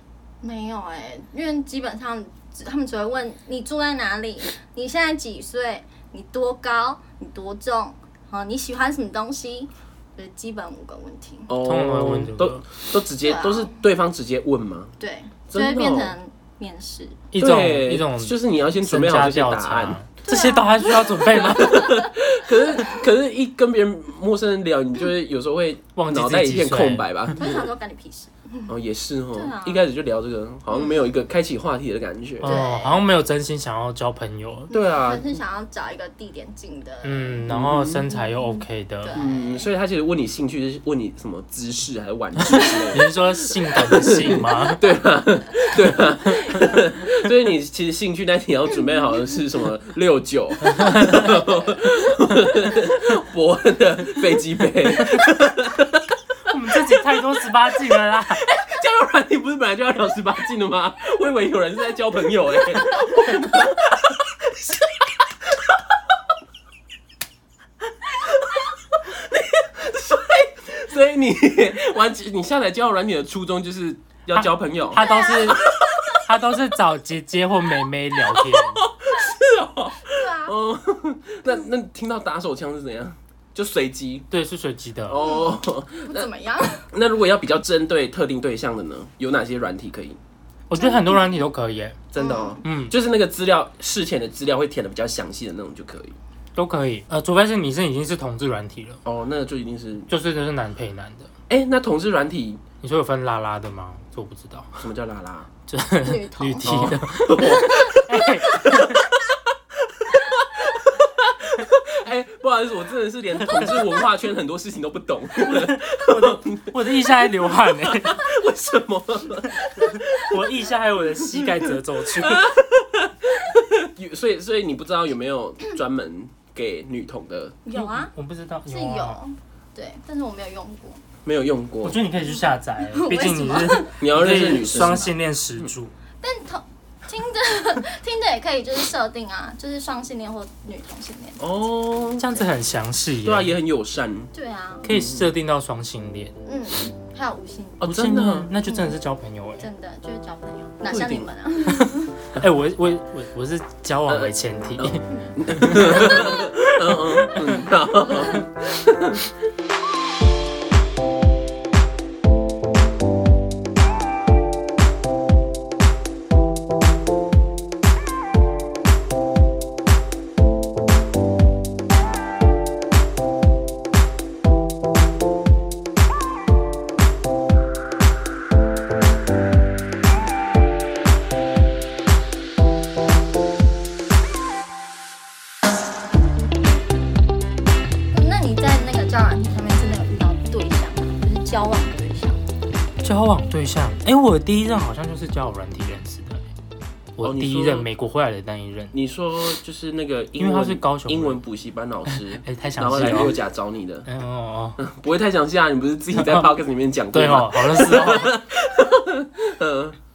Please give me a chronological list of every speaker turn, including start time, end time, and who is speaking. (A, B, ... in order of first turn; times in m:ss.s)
0:00.4-0:11.5 A
0:11.5-0:14.9 B
0:11.6-0:12.6 C
0:13.2-0:13.8 A
0:15.0-0:17.2 A
0:15.5-0:16.1 B
0:17.3-0:22.1 C
0:17.4-0:20.0 B
0:20.2-0:22.0 A
0:21.4-0:27.6 B
0:25.9-0:27.0 C
0:27.4-0:28.7 A
0:28.7-0:32.6 B
0:29.3-0:29.8 A
0:32.4-0:34.7 C
0:32.4-0:33.0 A
0:34.7-0:37.4 A
0:34.7-0:35.3 B
0:37.0-0:39.2 C
0:37.5-0:38.0 B
0:38.1-0:39.6 A
0:39.1-0:56.2 B
0:42.4-0:44.8 C
0:42.5-0:43.0 A
0:50.8-0:51.2 C
0:56.5-0:58.4 C
0:57.9-1:06.0 B
1:07.9-1:16.3 B
1:14.3-1:18.8 C
1:14.9-1:15.6 A
1:18.2-1:24.3 B
1:20.0-1:20.5 A
1:24.3-1:25.3 C
1:25.1-1:30.2 B
1:26.0-1:26.9 A
1:30.7-1:32.0 C
1:30.8-1:31.3 A
1:32.1-1:36.2 B
1:32.2-1:32.6 A
1:32.6-1:32.9 C
1:36.6-1:39.0 C
1:39.0-1:40.1 B
1:40.1-1:41.3 C
1:41.5-1:42.6 B
1:42.8-1:44.8 C
1:44.8-1:45.5 B
1:45.7-1:49.0 C
1:46.0-1:48.8 A
1:46.6-2:00.4 B
1:53.4-1:53.9 C
1:55.4-1:58.2 C
1:59.8-2:00.4 A
2:00.0-2:02.5 C
2:01.2-2:07.6 B
2:07.6-2:08.1 A
2:07.7-2:09.2 C
2:08.7-2:11.0 A
2:11.2-2:12.0 B
2:11.8-2:15.9 C
2:12.8-2:14.0 A
2:14.0-2:15.7 B
2:14.8-2:15.0 A
2:16.2-2:21.4 A
2:21.4-2:22.4 B
2:22.2-2:23.6 C
2:23.2-2:24.3 B
2:24.3-2:24.8 A
2:24.8-2:26.3 C
2:24.8-2:25.3 B
2:26.4-2:27.9 A
2:27.8-2:28.5 B
2:27.8-2:29.6 C
2:28.6-2:28.9 A
2:29.6-2:32.1 A
2:30.9-2:31.3 B
2:32.3-2:37.7 C
2:34.1-2:39.3 B
3:08.1-3:12.4 A
3:13.0-3:16.4 C
3:17.2-3:18.9 C
3:17.2-3:17.9 B
3:18.9-3:24.1 B
3:20.4-3:21.4 C
3:22.1-3:23.4 C
3:24.0-3:24.8 C
3:24.8-3:30.0 B
3:26.1-3:26.5 C
3:27.1-3:28.3 C